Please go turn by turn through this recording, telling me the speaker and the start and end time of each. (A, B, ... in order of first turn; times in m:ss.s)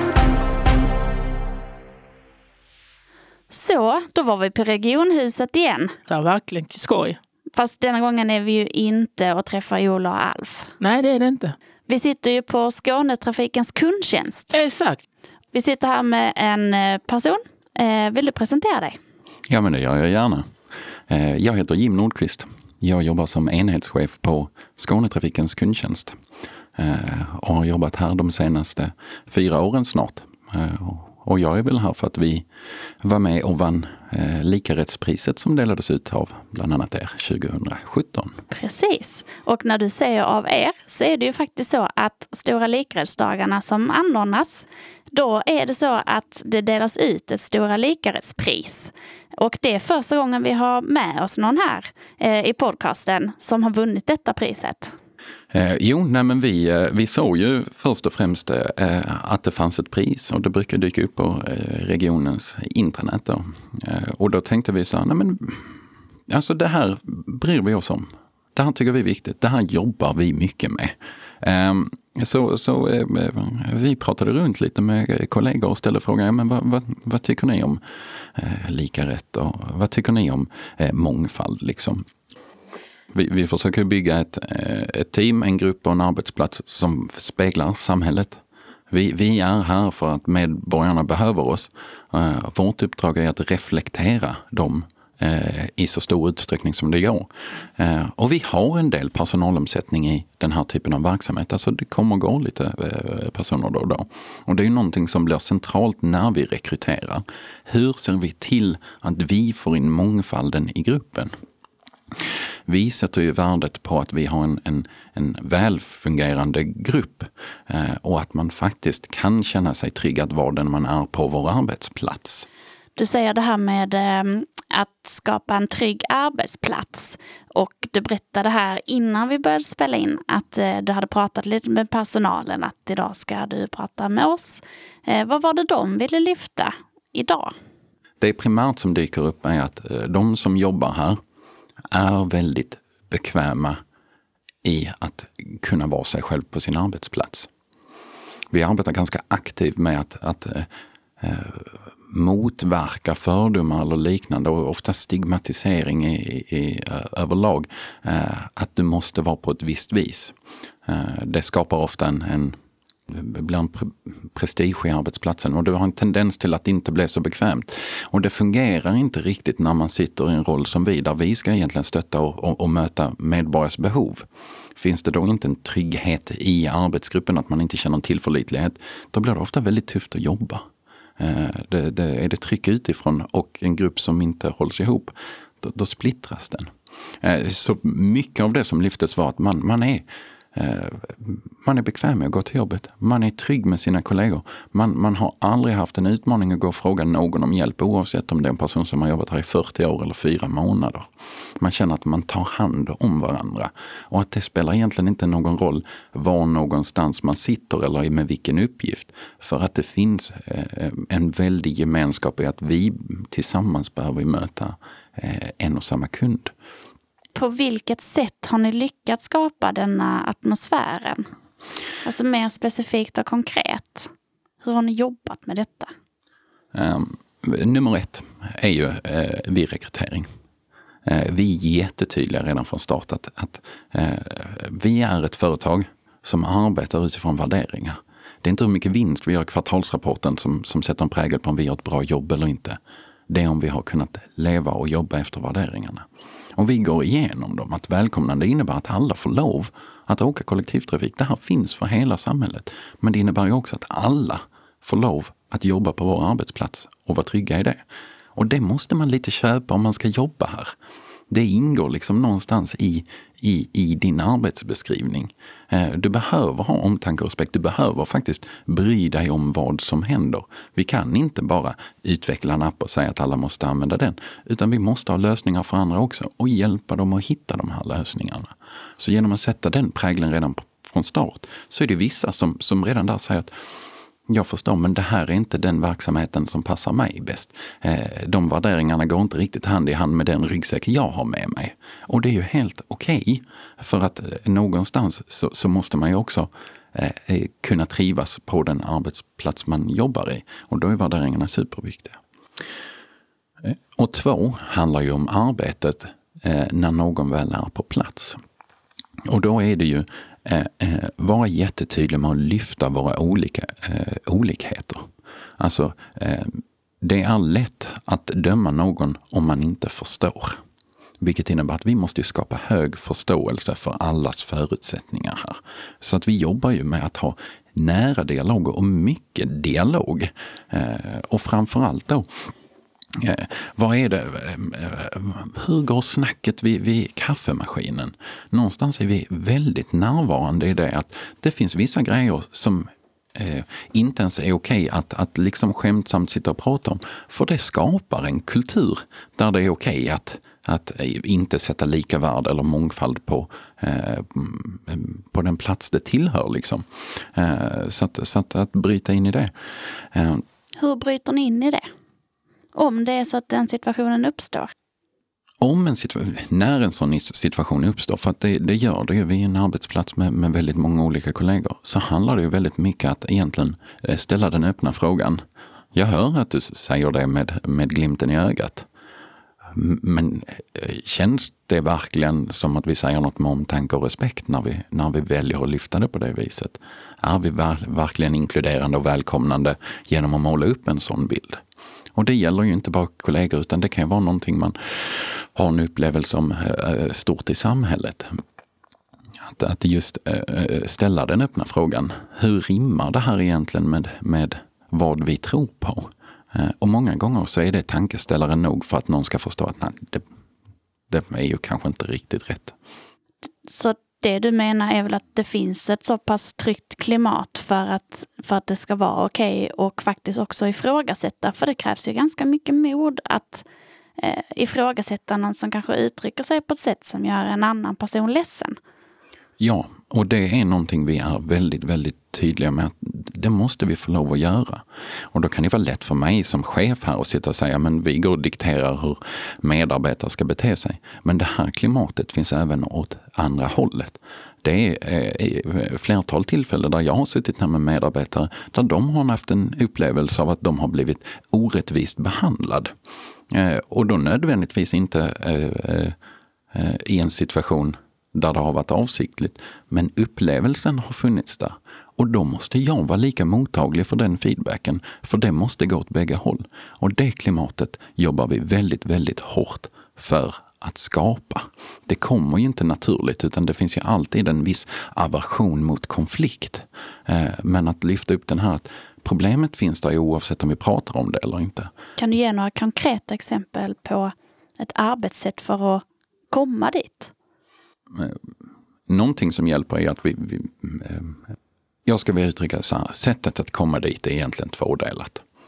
0:03.5-0:05.9 A
0:06.1-0:07.2 B
0:07.5-0:10.7 A
0:10.8-0:11.6 B
0:11.9-0:14.5 A
0:14.5-0:15.0 B
0:15.5-0:19.0 A
0:19.5-0:20.5 C
0:21.1-0:26.2 C
0:26.8-0:32.4 C
0:33.0-0:38.4 C
0:38.5-0:55.0 A
0:55.5-1:05.8 C
1:06.3-1:22.0 C
1:23.1-1:51.3 C
1:52.2-2:02.5 C
2:03.0-2:17.5 A
2:18.2-2:21.2 C
2:21.9-2:23.8 C
2:24.6-2:27.5 C
2:28.5-2:30.7 C
2:31.2-2:42.6 C
2:43.1-3:00.6 C
3:01.2-3:06.7 C
3:07.2-3:36.5 C
3:37.3-3:41.3 A
3:42.0-3:44.1 A
3:44.6-3:45.9 A
3:46.7-3:50.3 C
3:51.0-4:17.8 C
4:18.3-4:20.7 C
4:21.3-4:43.5 C
4:44.3-5:02.2 C
5:03.6-5:08.4 C
5:09.2-5:20.6 C
5:21.2-5:32.5 C
5:33.1-6:00.4 C
6:00.8-6:01.9 A
6:02.7-6:04.7 A
6:05.6-6:15.4 C
6:15.9-6:18.9 C
6:19.7-6:31.6 C
6:32.1-6:38.4 C
6:39.4-6:50.2 C
6:51.1-6:52.7 C
6:53.6-7:03.6 A
7:04.2-7:08.8 A
7:09.6-7:32.9 C
7:33.5-7:36.2 C
7:36.7-8:01.9 C
8:02.2-8:07.3 A
8:08.1-8:08.4 C
8:09.1-8:11.4 C
8:12.0-8:15.4 C